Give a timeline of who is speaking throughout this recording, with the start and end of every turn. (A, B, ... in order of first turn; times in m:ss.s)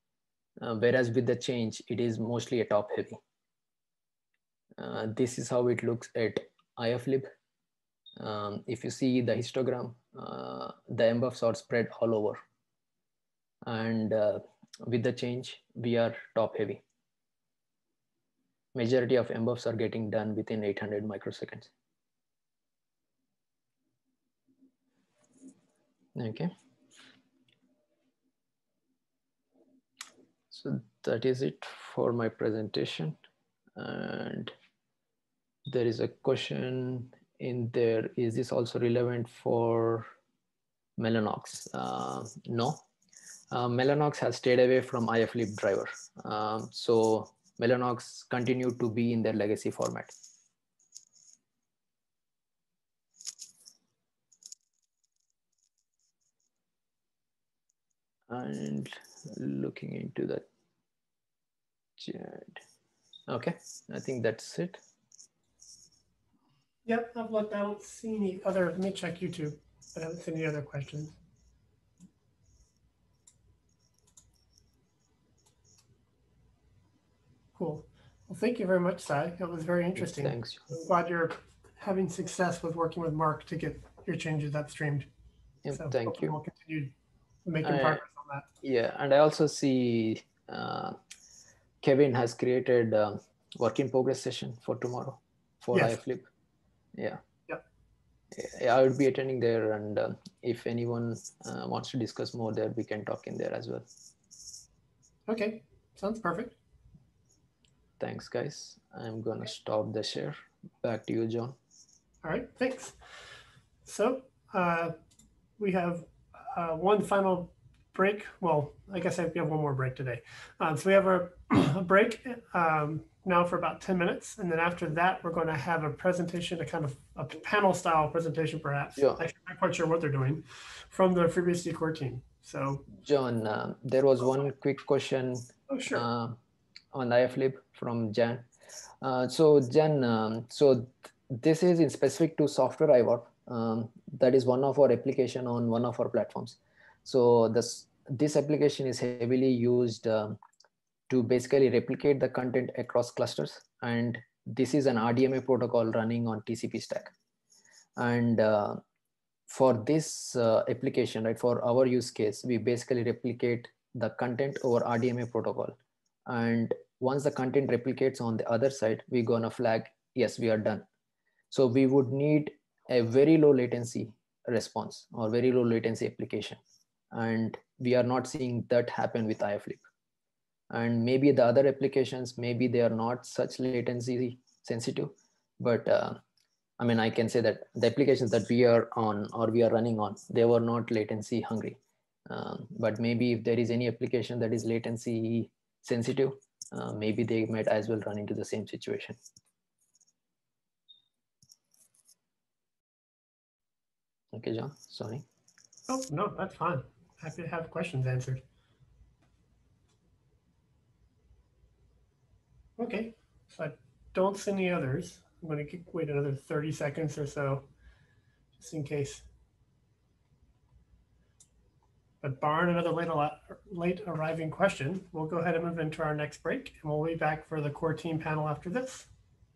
0:00.6-0:03.2 A
0:04.8-0:07.3 A
0:08.2-0:12.4 A
0:13.6-0:16.8 A
0:18.7-0:21.7 A
0:26.2-0:26.5 A
0:30.5-0:33.2 A
0:33.8-0:34.5 A
0:35.6-0:40.1 A
0:41.0-0:42.8 A
0:43.5-0:50.1 A
0:58.3-1:00.4 A
1:02.0-1:02.6 A
1:03.3-1:04.8 A
1:06.8-1:11.2 B
1:17.6-1:25.1 B
1:20.0-1:20.7 A
1:25.6-1:26.4 A
1:25.7-1:26.9 B
1:27.4-1:28.4 B
1:27.6-1:28.0 A
1:28.6-1:31.0 A
1:31.8-1:36.3 A
1:35.7-1:36.0 B
1:38.3-1:43.9 A
1:45.3-1:46.5 B
1:48.0-1:51.6 A
1:52.2-1:53.0 B
1:53.8-1:54.9 B
1:55.6-2:12.8 B
2:09.0-2:09.2 A
2:13.0-2:16.4 A
2:15.7-2:16.0 B
2:16.9-2:18.5 A
2:19.0-2:30.4 A
2:31.1-2:37.1 A
2:38.0-2:38.8 A
2:39.5-2:45.7 A
2:46.3-2:50.9 A
2:51.5-2:56.6 A
2:57.1-2:59.8 A
3:00.7-3:06.2 A
3:06.8-3:19.2 A
3:24.3-3:25.2 A
3:25.9-3:28.4 B
3:32.8-3:37.6 B
3:38.6-3:39.2 B
3:42.2-3:49.1 B